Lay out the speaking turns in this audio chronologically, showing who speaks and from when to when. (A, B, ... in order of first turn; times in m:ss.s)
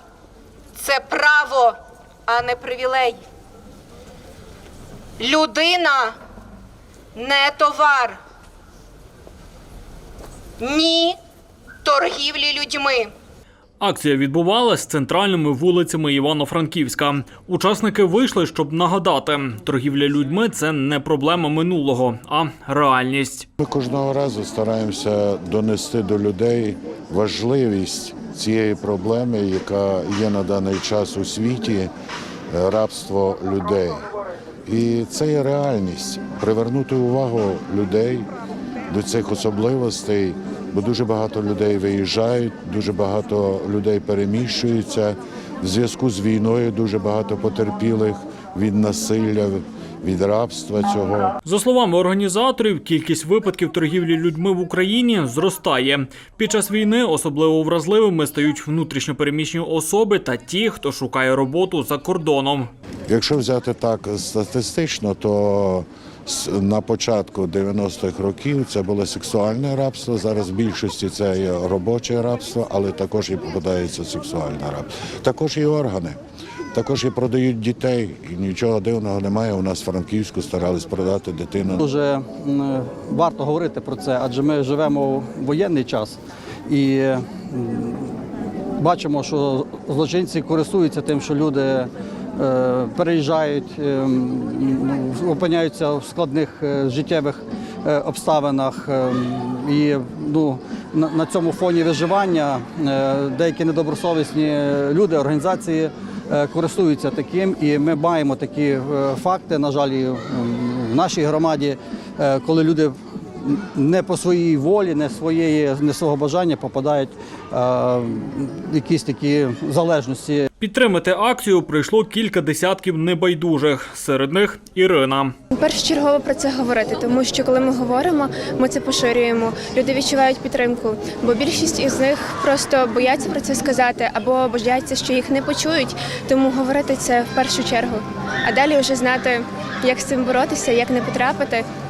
0:00.8-0:03.2 A
0:05.2-0:06.1 A
0:07.2-0:08.2 A
0:10.6-0:11.2 A
0:11.8-0:13.1 A
0:13.8-0:23.5 B
0:23.6-0:31.9 C
0:32.5-0:34.1 C
0:34.7-0:38.3 C
0:38.9-0:51.4 C
0:51.4-1:02.7 B
1:03.1-1:16.2 C
1:16.7-1:21.8 C
1:21.8-1:28.2 D
1:28.8-2:00.5 D
2:00.6-2:05.3 B
2:05.5-2:21.7 E